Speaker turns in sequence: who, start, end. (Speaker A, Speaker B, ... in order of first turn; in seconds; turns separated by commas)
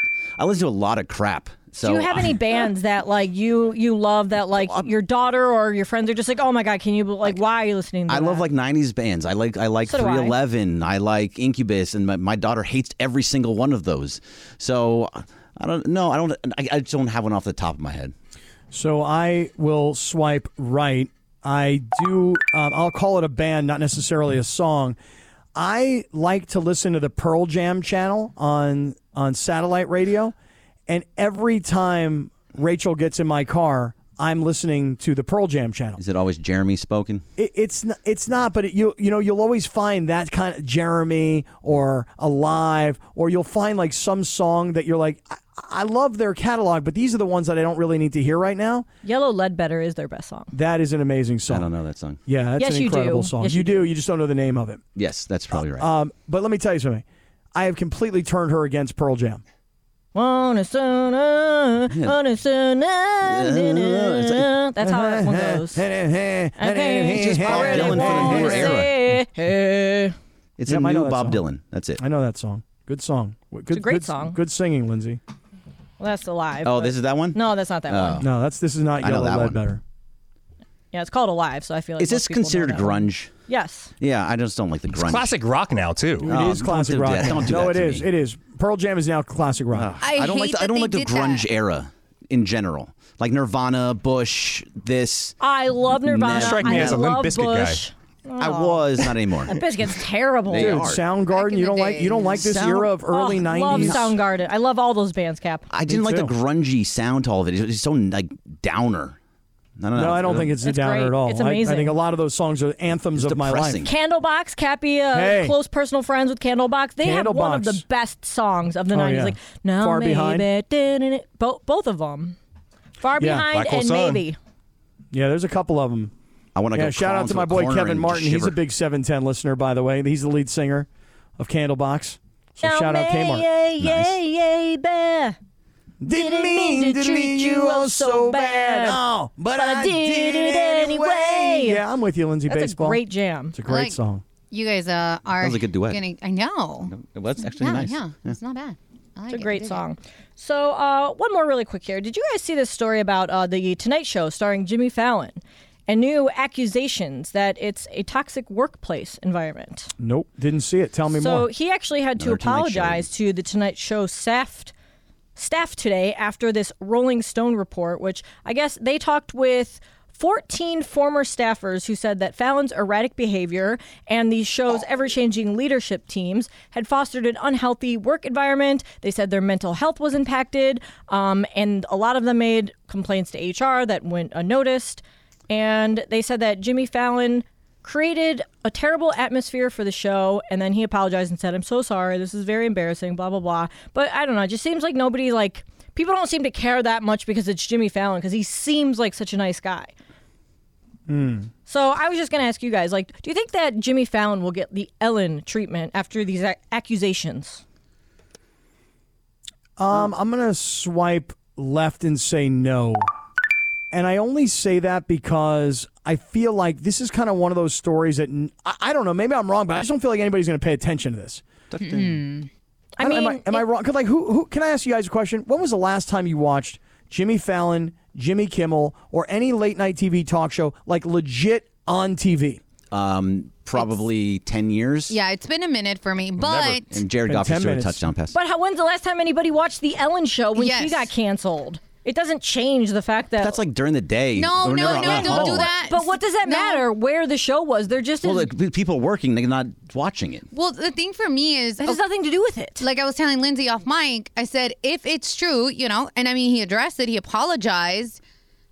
Speaker A: 0.4-2.4, Speaker B: 1.8-8.5, Speaker A: 8.1-18.1, Speaker B: 9.9-10.3, Speaker C: 18.7-25.0, Speaker C: 25.6-30.3, Speaker C: 30.9-36.0, Speaker A: 36.0-37.2, Speaker C: 37.4-48.9, Speaker B: 49.0-50.5, Speaker C: 50.5-51.7, Speaker A: 51.5-52.2, Speaker C: 52.3-54.8, Speaker B: 52.6-53.9, Speaker A: 55.0-55.9, Speaker C: 55.8-57.0, Speaker C: 57.5-59.4, Speaker B: 60.1-65.8, Speaker A: 63.2-64.5, Speaker C: 64.8-68.9, Speaker B: 66.6-70.2, Speaker A: 67.1-68.9, Speaker A: 70.6-72.0, Speaker C: 70.7-71.4, Speaker C: 72.0-75.2, Speaker B: 73.7-74.4, Speaker B: 76.0-78.2, Speaker A: 76.6-78.3, Speaker C: 78.2-79.8, Speaker A: 79.0-79.6, Speaker B: 80.9-83.9, Speaker A: 82.0-83.3, Speaker A: 84.0-85.3, Speaker D: 85.0-86.3, Speaker C: 86.2-89.9, Speaker A: 86.2-88.1, Speaker A: 89.7-95.4, Speaker E: 90.0-91.5, Speaker B: 95.4-100.8, Speaker A: 96.0-97.0, Speaker D: 96.3-97.8, Speaker A: 98.4-99.6, Speaker A: 100.5-101.0, Speaker C: 100.5-104.2, Speaker E: 101.3-102.5, Speaker A: 102.3-102.9, Speaker B: 103.1-105.7, Speaker A: 103.7-104.0, Speaker A: 105.7-109.2, Speaker C: 105.9-106.3, Speaker A: 109.8-110.5, Speaker C: 110.0-113.9, Speaker B: 110.6-112.0, Speaker A: 113.2-113.9, Speaker B: 113.8-122.4, Speaker C: 115.1-115.5, Speaker C: 117.0-117.8, Speaker C: 118.9-120.5, Speaker B: 123.0-124.4, Speaker D: 123.4-124.2, Speaker C: 125.1-126.1, Speaker A: 126.5-128.6, Speaker C: 126.7-130.9, Speaker C: 131.4-133.5, Speaker B: 132.6-135.4, Speaker A: 133.8-134.2, Speaker C: 136.0-143.0, Speaker B: 136.1-139.0, Speaker B: 139.5-141.8, Speaker B: 142.5-143.6, Speaker C: 143.5-144.2, Speaker E: 143.7-144.0, Speaker E: 144.5-149.8, Speaker A: 145.4-146.0, Speaker A: 146.9-148.4, Speaker B: 149.3-159.9, Speaker C: 160.0-161.5, Speaker B: 161.1-164.7, Speaker A: 162.2-163.1, Speaker B: 165.4-199.9, Speaker C: 201.1-201.5, Speaker B: 201.7-207.6, Speaker C: 209.8-213.1, Speaker C: 213.9-221.4, Speaker A: 221.7-222.2, Speaker E: 221.8-222.5, Speaker B: 223.0-223.6, Speaker C: 223.0-232.6, Speaker A: 232.9-235.2, Speaker E: 233.8-234.0, Speaker E: 235.1-237.0, Speaker A: 236.5-238.3, Speaker C: 237.3-238.0, Speaker B: 238.3-243.6, Speaker E: 240.6-241.1, Speaker A: 243.4-245.7, Speaker E: 244.3-246.9, Speaker B: 244.8-248.5, Speaker A: 248.2-250.5, Speaker E: 250.5-252.0, Speaker B: 251.8-252.8, Speaker E: 252.8-258.2